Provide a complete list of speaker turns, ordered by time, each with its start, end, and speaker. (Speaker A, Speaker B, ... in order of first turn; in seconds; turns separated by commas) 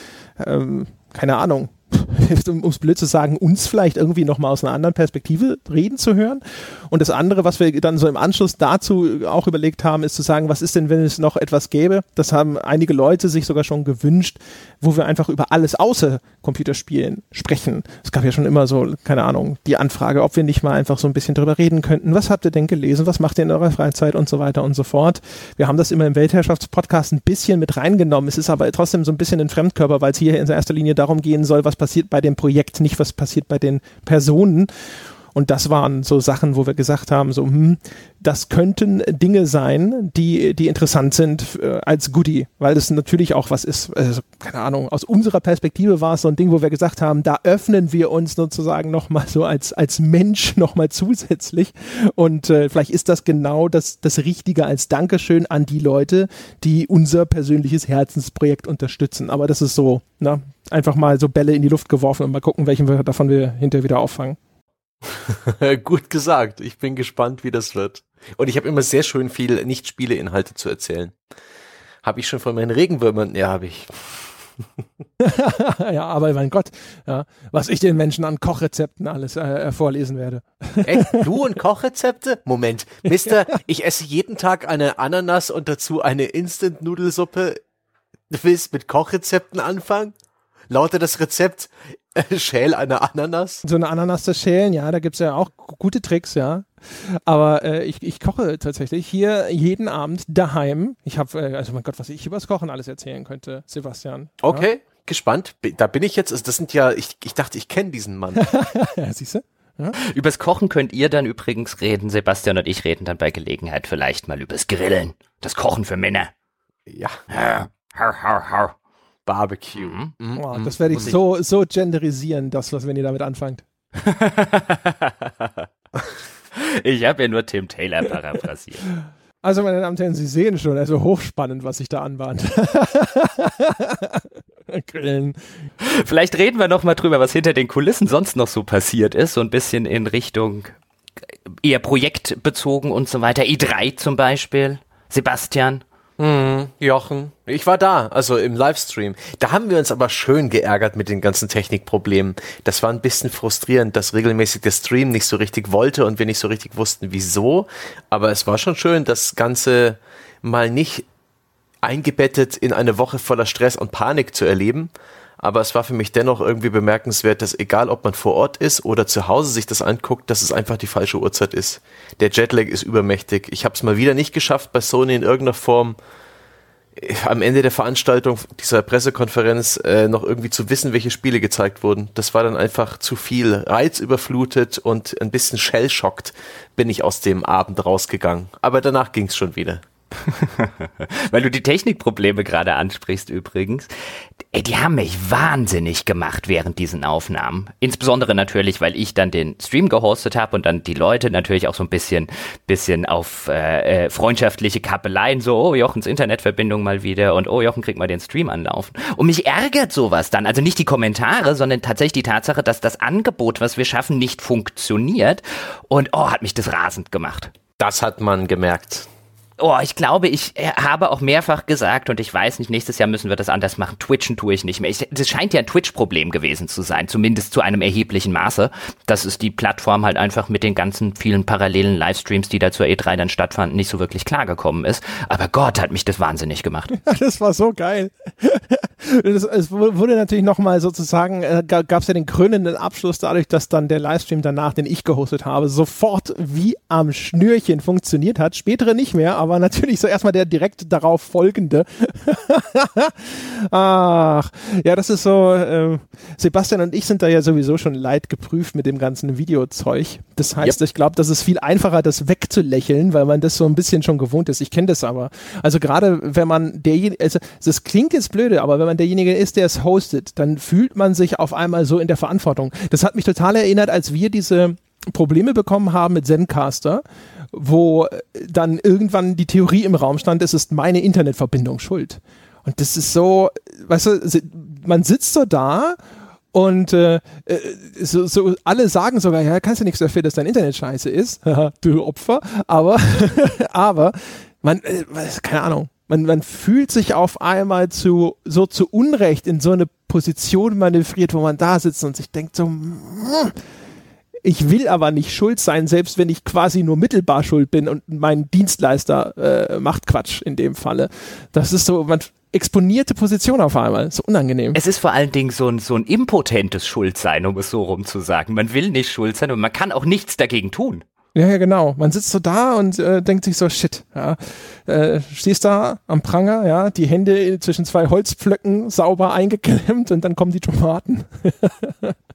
Speaker A: 0.4-34.7, Speaker A: 35.3-64.4, Speaker B: 65.0-71.1, Speaker B: 72.0-74.7, Speaker A: 75.2-81.2, Speaker B: 80.8-87.6, Speaker B: 88.3-90.1, Speaker B: 90.7-93.6, Speaker A: 93.6-104.7, Speaker B: 104.4-108.5, Speaker A: 108.4-110.0, Speaker C: 110.0-116.3, Speaker B: 116.9-117.2, Speaker C: 117.3-118.7, Speaker B: 119.2-120.4, Speaker C: 119.8-121.2, Speaker A: 120.3-123.6, Speaker C: 124.0-125.7, Speaker C: 126.5-128.8, Speaker A: 129.4-135.4, Speaker C: 135.8-140.7, Speaker C: 141.6-145.8, Speaker B: 146.2-161.1, Speaker B: 161.8-176.0, Speaker B: 176.9-189.8, Speaker C: 190.2-193.9, Speaker C: 194.5-217.5, Speaker B: 217.8-219.1, Speaker C: 219.6-236.9, Speaker A: 237.0-286.0, Speaker A: 286.5-303.6, Speaker A: 304.4-314.8, Speaker C: 314.7-321.0, Speaker A: 321.3-332.1